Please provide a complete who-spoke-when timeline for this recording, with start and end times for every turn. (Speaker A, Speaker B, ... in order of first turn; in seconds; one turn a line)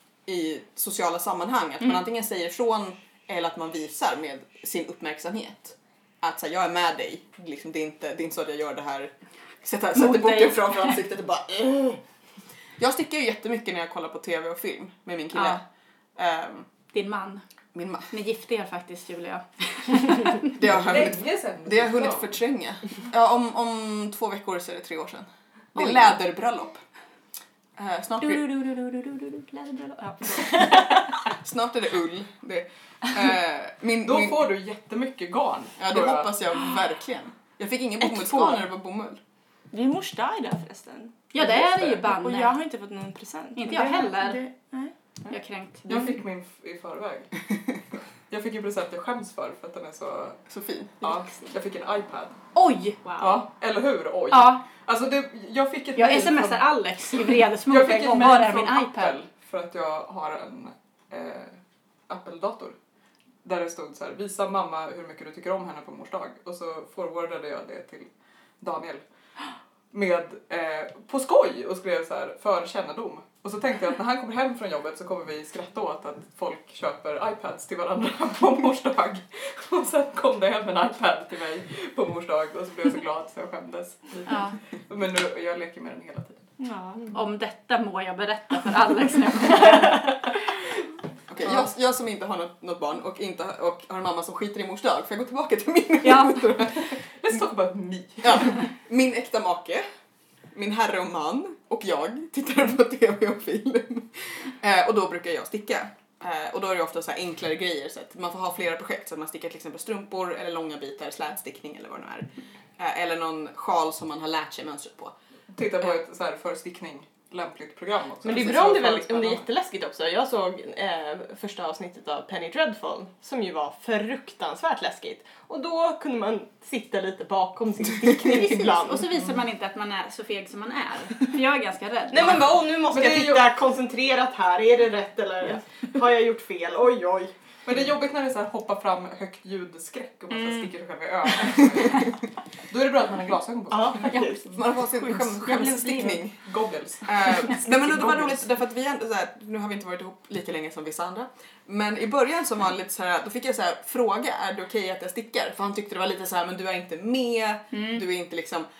Speaker A: 0.2-12.0
Speaker B: 9.9-11.0
Speaker A: 12.8-15.6
Speaker B: 15.3-15.6
Speaker A: 16.1-16.7
Speaker B: 16.9-17.4
Speaker A: 17.7-18.1
Speaker B: 18.1-20.5
Speaker A: 20.5-26.8
Speaker C: 20.8-22.3
Speaker A: 27.8-28.4
Speaker B: 28.2-31.2
Speaker A: 31.3-34.4
Speaker C: 34.0-36.3
Speaker A: 35.8-39.2
Speaker B: 38.0-38.6
Speaker D: 39.7-41.2
Speaker B: 41.3-42.5
Speaker D: 42.0-44.9
Speaker B: 43.5-44.4
Speaker B: 45.3-46.0
Speaker C: 45.9-47.5
Speaker C: 48.3-50.4
Speaker A: 50.5-51.1
Speaker C: 51.0-52.4
Speaker B: 52.5-53.4
Speaker C: 53.2-56.6
Speaker B: 54.3-54.6
Speaker B: 56.0-59.1
Speaker C: 57.2-61.6
Speaker C: 62.1-62.7
Speaker C: 63.4-68.1
Speaker C: 68.6-69.0
Speaker C: 69.9-86.5
Speaker B: 84.2-84.6
Speaker D: 86.6-87.1
Speaker B: 87.1-90.3
Speaker A: 91.3-97.4
Speaker B: 96.0-96.5
Speaker C: 96.8-98.7
Speaker A: 98.2-99.8
Speaker A: 100.5-115.1
Speaker C: 115.5-119.5
Speaker E: 118.2-129.1
Speaker B: 128.7-132.5
Speaker E: 132.1-137.3
Speaker C: 132.2-133.6
Speaker C: 137.6-144.2
Speaker B: 140.3-140.7
Speaker E: 143.7-144.4
Speaker B: 144.0-146.2
Speaker A: 144.5-146.4
Speaker C: 146.3-148.2
Speaker A: 147.0-158.7
Speaker B: 157.7-158.0